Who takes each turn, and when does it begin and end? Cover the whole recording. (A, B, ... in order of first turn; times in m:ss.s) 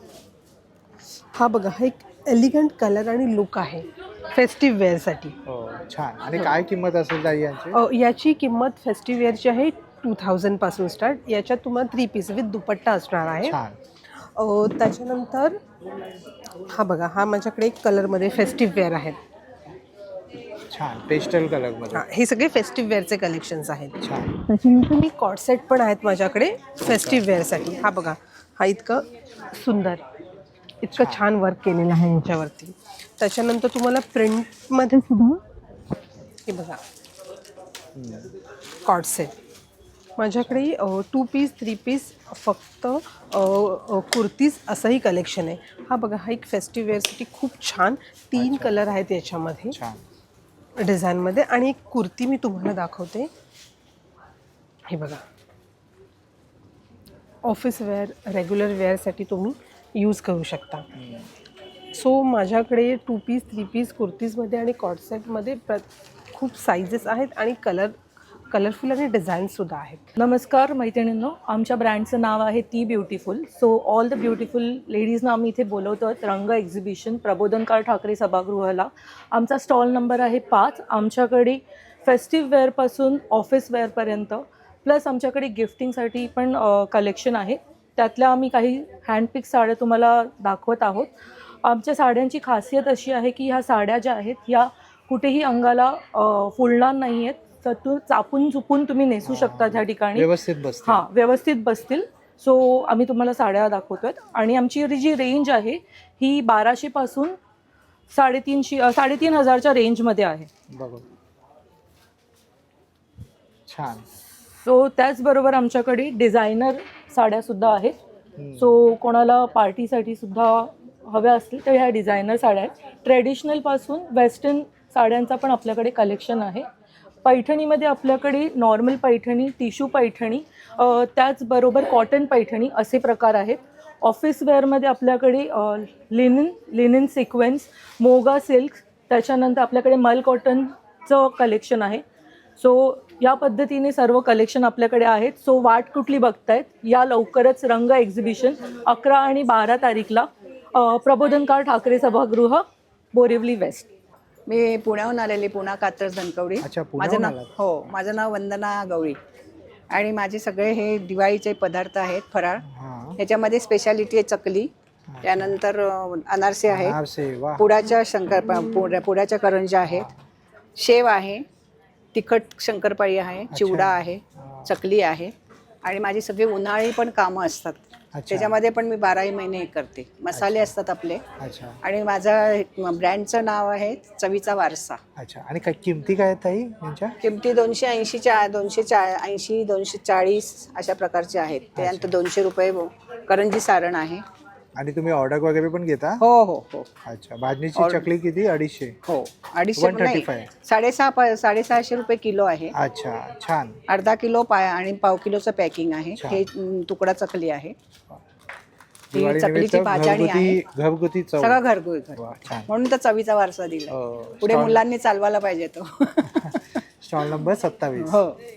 0:01.3-0:05.4 A
0:05.5-0:07.8 B
0:07.7-0:13.6 A
0:13.4-0:13.8 B
0:14.4-0:15.6 A
0:16.7-0:19.2 A
0:20.7-0:22.0 B
0:21.9-0:30.0 A
0:24.0-0:24.3 B
0:26.9-0:27.3 B
0:30.8-0:35.4 A
0:30.9-0:31.2 B
0:36.5-0:36.8 A
0:38.0-0:38.3 B
0:38.9-0:39.3 A
0:40.2-0:49.8 A
0:48.4-0:49.0 B
0:49.7-0:50.0 B
0:50.8-0:53.3 A
0:54.9-0:55.2 A
0:57.4-1:00.8 A
1:01.0-1:01.3 B
1:01.9-1:08.0 A
1:08.5-1:10.2 A
1:10.2-1:31.1 C
1:31.6-1:40.3 C
1:39.2-1:41.0 B
1:40.8-1:47.4 C
1:48.1-1:50.5 C
1:50.7-1:51.0 B
1:53.7-1:54.0 B
1:54.6-1:58.0 C
1:58.4-1:58.7 B
1:58.6-2:06.7 C
2:07.2-2:22.0 C
2:22.6-2:33.9 C
2:34.5-2:39.2 D
2:36.6-2:37.5 B
2:39.9-2:42.6 D
2:42.7-2:43.2 B
2:43.2-2:44.7 D
2:45.1-2:45.6 B
2:45.2-2:47.0 D
2:46.7-2:47.7 B
2:47.6-2:50.1 D
2:49.8-2:50.2 B
2:50.8-2:51.4 D
2:52.1-2:55.3 D
2:53.5-2:54.7 B
2:55.8-3:01.2 D
2:58.2-2:58.6 B
3:00.3-3:00.7 B
3:01.4-3:01.8 B
3:01.8-3:05.0 D
3:05.2-3:07.2 B
3:07.2-3:14.2 D
3:11.8-3:12.2 B
3:14.8-3:16.2 B
3:16.2-3:16.9 D
3:17.1-3:19.0 B
3:17.8-3:18.1 D
3:19.1-3:22.8 D
3:19.8-3:20.5 B
3:22.7-3:23.8 B
3:23.9-3:27.7 D
3:26.2-3:26.5 B
3:29.1-3:31.6 B
3:29.1-3:30.6 D
3:31.4-3:36.4 D
3:32.2-3:32.7 B
3:33.9-3:34.8 B
3:36.3-3:38.2 B
3:38.0-3:38.4 D